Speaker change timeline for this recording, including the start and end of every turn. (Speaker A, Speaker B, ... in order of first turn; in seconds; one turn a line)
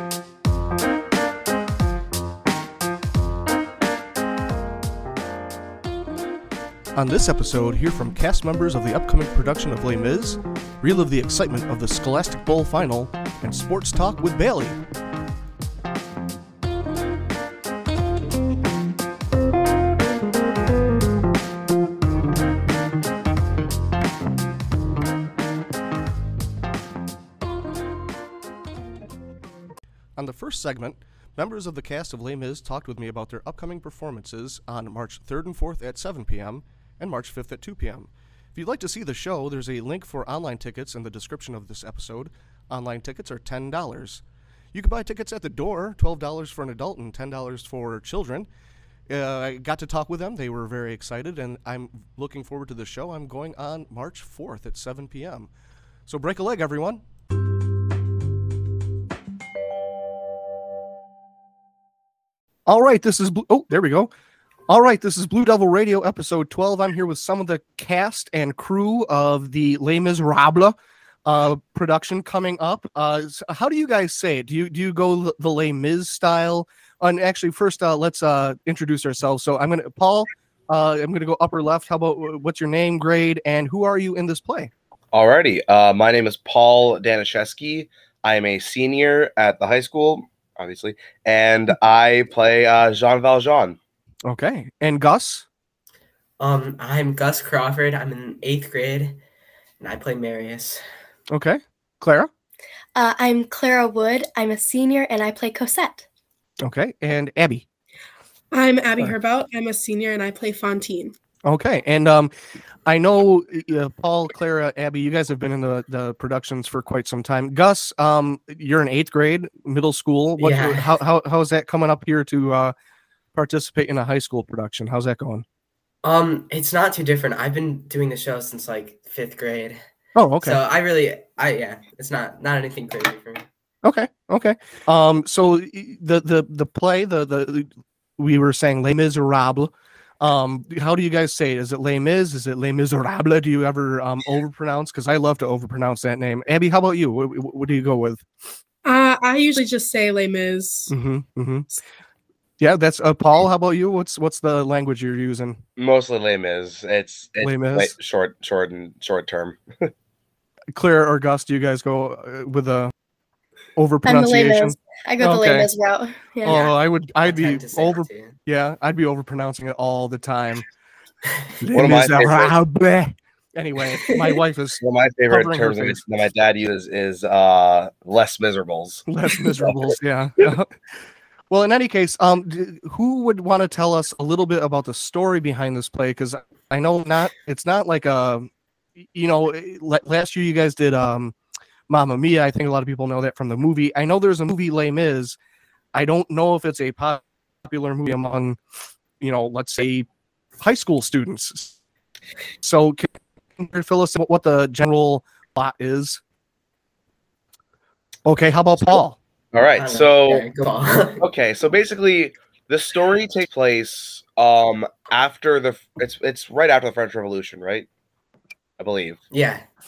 Speaker A: 6.9-14.8
Speaker A: 30.2-44.2
Speaker A: 44.7-48.5
Speaker A: 49.1-55.5
Speaker A: 56.1-57.0
Speaker A: 62.7-64.1
Speaker A: 64.7-84.7
Speaker B: 85.1-93.8
Speaker A: 94.2-95.4
Speaker C: 96.4-99.2
Speaker C: 99.8-100.8
Speaker A: 101.3-102.3
Speaker D: 102.9-106.0
Speaker A: 106.6-107.6
Speaker E: 108.5-111.1
Speaker A: 111.5-112.3
Speaker A: 112.8-122.7
Speaker C: 120.4-121.0
Speaker A: 123.3-125.4
Speaker C: 126.0-129.8
Speaker A: 130.2-130.6
Speaker C: 130.4-133.4
Speaker A: 133.8-148.2
Speaker E: 148.8-150.9
Speaker A: 150.9-151.7
Speaker A: 152.6-155.6
Speaker B: 155.8-159.9
Speaker A: 157.4-157.9
Speaker A: 160.8-162.9
Speaker A: 163.8-165.7
Speaker D: 164.0-166.6
Speaker A: 166.4-170.6
Speaker C: 166.4-168.4
Speaker A: 171.6-176.0
Speaker B: 171.7-172.5
Speaker B: 174.8-179.1
Speaker A: 179.1-180.7
Speaker B: 179.6-180.5
Speaker A: 181.5-188.5
Speaker A: 189.0-191.3
Speaker A: 191.9-195.3
Speaker A: 195.9-198.6
Speaker A: 199.2-200.1
Speaker A: 200.6-201.7
Speaker A: 202.6-206.2
Speaker A: 208.2-209.2
Speaker B: 209.5-210.4
Speaker C: 209.8-211.2
Speaker B: 211.2-217.9
Speaker B: 218.8-219.2
Speaker C: 219.3-219.6